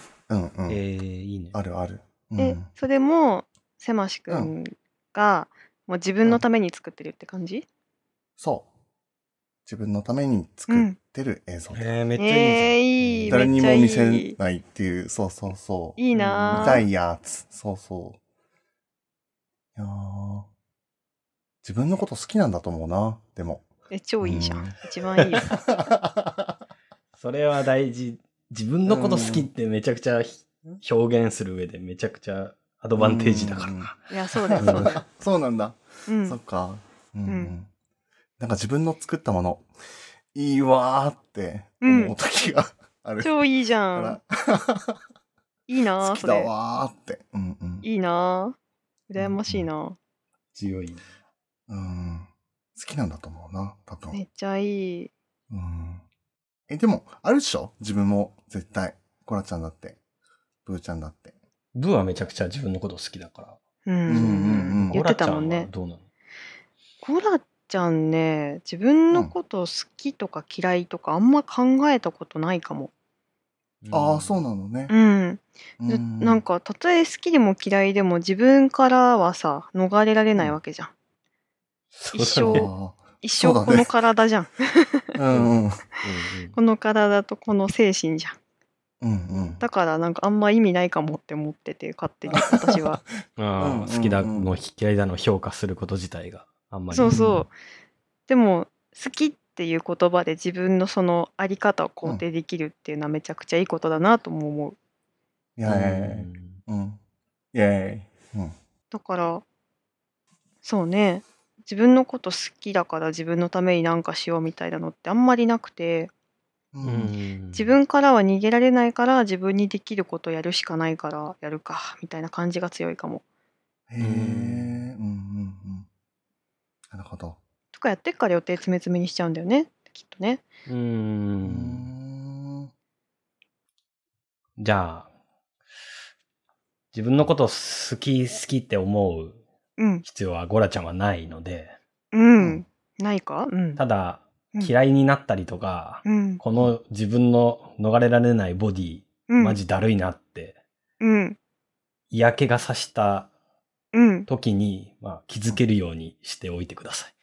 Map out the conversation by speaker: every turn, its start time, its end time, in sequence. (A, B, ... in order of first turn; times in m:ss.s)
0:00.3-0:00.8 A
0:00.7-0:01.6 B
0:01.5-0:02.7 A
0:02.4-0:07.6 C
0:08.4-0:08.7 A
0:09.6-0:11.9 A
0:10.7-0:11.0 C
0:11.7-0:13.6 B
0:12.2-0:14.4 C
0:13.3-0:16.0 A
0:16.0-0:16.8 C
0:16.1-0:16.8 B
0:16.5-0:18.2 A
0:19.8-0:20.5 A
0:21.6-0:23.7 A
0:23.9-0:25.5 C
0:24.2-0:24.8 A
0:25.4-0:26.6 A
0:27.2-0:34.0 B
0:28.9-0:29.5 A
0:33.0-0:33.9 A
0:34.1-0:35.0 C
0:34.5-0:37.7 A
0:34.5-0:34.9 B
0:36.1-0:36.4 C
0:37.3-0:37.5 C
0:38.4-0:39.7 A
0:40.3-0:43.4 A
0:41.8-0:42.1 C
0:43.2-0:44.2 C
0:43.9-0:45.0 A
0:45.7-0:46.5 C
0:46.0-0:47.8 A
0:47.8-0:48.6 C
0:49.1-0:50.0 C
0:49.2-0:49.6 A
0:50.5-0:51.0 B
0:51.7-0:54.2 A
0:54.1-0:55.1 C
0:55.5-0:56.0 A
0:56.7-1:00.0 A
1:00.6-1:01.3 A
1:01.7-1:06.0 B
1:03.8-1:05.7 C
1:04.1-1:05.0 A
1:07.0-1:12.9 C
1:13.8-1:14.4 B
1:13.9-1:14.9 A
1:14.9-1:20.9 C
1:15.8-1:16.4 A
1:22.0-1:22.7 B
1:22.1-1:22.7 C
1:22.4-1:23.9 A
1:23.2-1:25.2 C
1:25.1-1:25.8 A
1:25.3-1:26.6 B
1:26.5-1:28.4 C
1:29.0-1:29.6 A
1:29.6-1:33.0 C
1:32.5-1:32.8 A
1:33.4-1:37.2 B
1:33.6-1:34.5 A
1:36.9-1:37.5 C
1:37.0-1:37.4 A
1:38.3-1:44.8 C
1:45.6-1:47.0 A
1:45.6-1:46.6 B
1:47.5-1:48.5 A
1:48.9-1:49.4 C
1:50.6-1:56.1 C
1:56.7-1:57.1 A
1:56.8-1:57.7 B
1:57.5-2:03.2 C
2:03.9-2:05.9 A
2:04.0-2:04.8 B
2:06.9-2:07.4 A
2:07.7-2:10.4 C
2:10.6-2:11.9 B
2:11.4-2:12.7 A
2:14.6-2:15.1 B
2:16.9-2:19.4 B
2:19.8-2:20.0 C
2:20.0-2:21.8 B
2:22.1-2:23.8 C
2:23.8-2:30.6 B
2:26.0-2:26.4 C
2:29.3-2:29.6 C
2:31.0-2:31.4 C
2:32.1-2:33.3 B
2:33.9-2:34.3 C
2:34.3-2:37.1 B